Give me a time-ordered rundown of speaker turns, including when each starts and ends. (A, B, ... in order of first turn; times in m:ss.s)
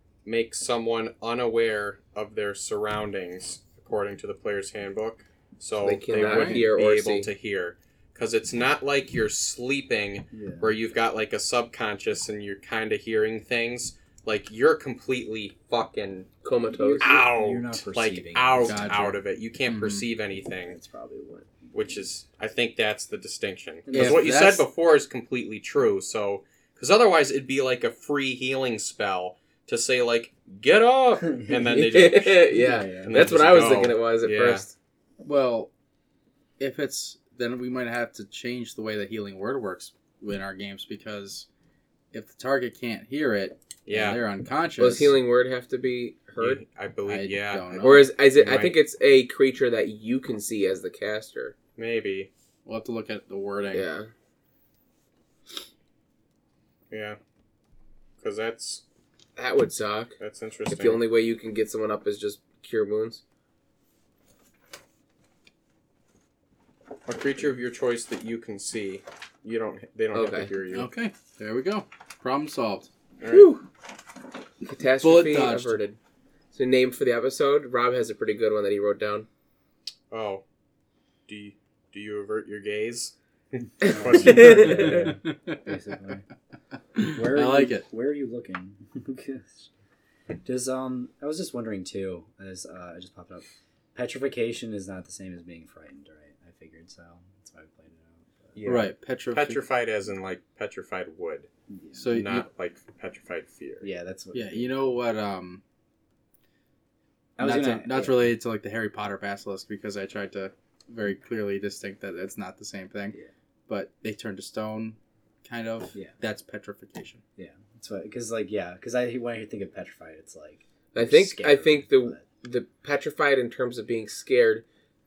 0:00.2-0:16.3 A
0:05.8-0:07.3 B
0:06.1-0:06.7 C
0:10.3-0:10.8 D
0:16.4-0:17.1 B
0:16.7-0:19.1 D
0:17.0-0:20.8 A
0:18.6-0:20.0 C
0:20.7-0:22.0 D
0:21.7-0:34.7 A
0:23.9-0:24.3 D
0:23.9-0:24.7 C
0:31.3-0:31.7 D
0:31.7-0:34.7 B
0:32.5-0:33.3 D
0:35.2-0:35.7 C
0:36.6-0:41.5 C
0:42.1-0:45.2 C
0:43.9-0:44.2 A
0:44.8-0:46.6 B
0:46.4-0:48.8 A
0:47.1-0:48.1 C
0:47.8-0:51.6 B
0:51.7-0:52.3 A
0:52.7-0:53.9 C
0:53.7-0:54.1 B
0:56.9-0:57.2 A
0:58.2-0:58.8 A
0:59.4-1:00.2 B
1:00.2-1:01.0 A
1:00.7-1:03.2 B
1:07.1-1:10.9 A
1:10.1-1:10.5 B
1:10.7-1:12.9 C
1:13.2-1:13.5 A
1:13.3-1:13.7 B
1:14.6-1:16.0 B
1:15.0-1:15.8 C
1:16.5-1:19.3 B
1:20.1-1:20.4 A
1:21.3-1:25.2 A
1:23.8-1:25.0 B
1:23.9-1:26.2 D
1:24.2-1:25.6 C
1:27.0-1:27.9 C
1:27.0-1:29.7 D
1:30.4-1:38.8 D
1:38.6-1:38.8 B
1:38.7-1:39.6 C
1:39.3-1:41.5 A
1:41.7-1:42.2 D
1:42.0-1:42.5 C
1:42.1-1:43.9 A
1:43.8-1:44.8 D
1:44.3-1:45.6 C
1:47.4-1:48.3 D
1:47.4-1:53.2 C
1:53.7-1:57.2 C
1:57.4-2:02.2 D
2:00.9-2:04.6 B